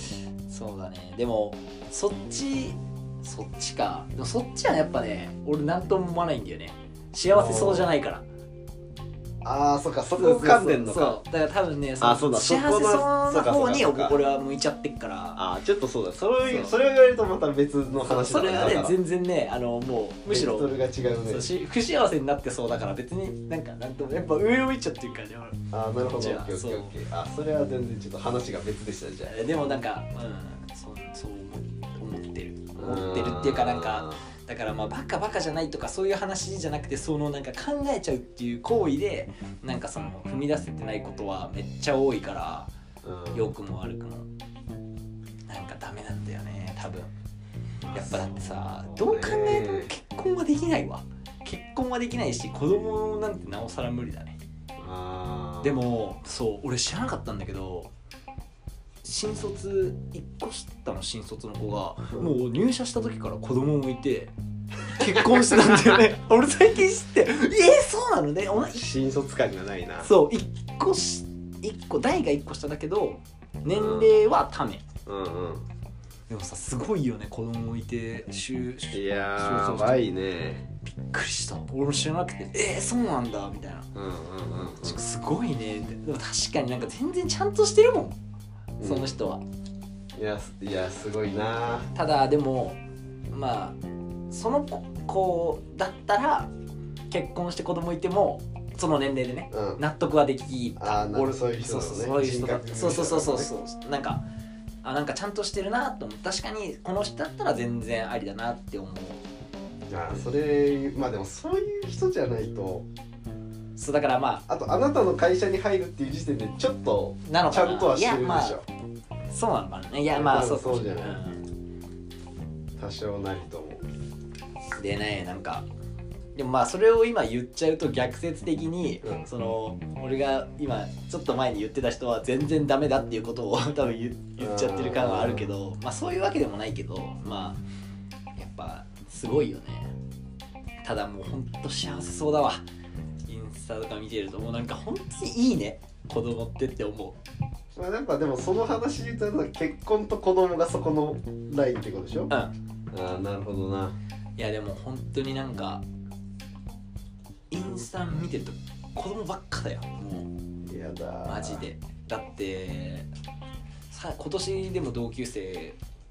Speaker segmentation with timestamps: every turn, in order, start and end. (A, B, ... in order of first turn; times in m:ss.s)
0:00.5-0:08.2 A
0:07.2-0:08.0 B
0:09.4-0:11.2 B
0:10.2-0:15.4 A
0:12.0-0:14.2 B
0:15.4-0:19.0 B
0:16.4-0:16.8 A
0:18.0-0:20.7 A
0:20.3-0:21.5 B
0:21.2-0:26.9 A
0:25.7-0:29.3 B
0:29.2-0:42.7 A
0:32.8-0:34.2 B
0:43.0-0:43.5 B
0:43.3-0:44.3 A
0:45.5-0:47.1 A
0:47.9-0:49.9 B
0:47.9-0:54.4 A
0:54.8-0:55.8 B
0:55.6-0:57.9 A
0:59.0-1:04.3 A
1:04.8-1:08.8 A
1:05.1-1:06.0 B
1:08.6-1:10.1 B
1:10.0-1:14.9 A
1:13.7-1:14.1 B
1:15.1-1:15.7 B
1:16.3-1:20.0 A
1:18.9-1:20.7 B
1:21.0-1:23.9 A
1:24.0-1:25.0 B
1:24.6-1:28.2 A
1:28.8-1:29.2 B
1:28.8-1:29.4 A
1:30.2-1:31.9 B
1:31.9-1:32.8 A
1:33.3-1:33.8 A
1:34.3-1:36.5 A
1:37.1-1:44.2 A
1:39.5-1:39.8 B
1:40.8-1:43.5 B
1:44.8-1:49.2 A
1:49.9-1:52.9 B
1:53.8-1:54.4 A
1:54.5-1:58.6 B
1:57.3-1:58.6 A
1:59.3-2:01.5 A
2:00.1-2:01.2 B
2:02.8-2:03.8 B
2:04.8-2:05.7 A
2:06.4-2:17.6 A
2:09.0-2:09.3 B
2:14.4-2:15.5 B
2:18.4-2:19.9 A
2:20.8-2:22.6 A
2:23.3-2:27.2 A
2:27.8-2:32.3 B
2:32.9-2:34.0 B
2:34.4-2:35.8 A
2:37.5-2:40.3 A
2:40.7-2:41.6 B
2:41.3-2:43.1 A
2:43.9-2:45.8 A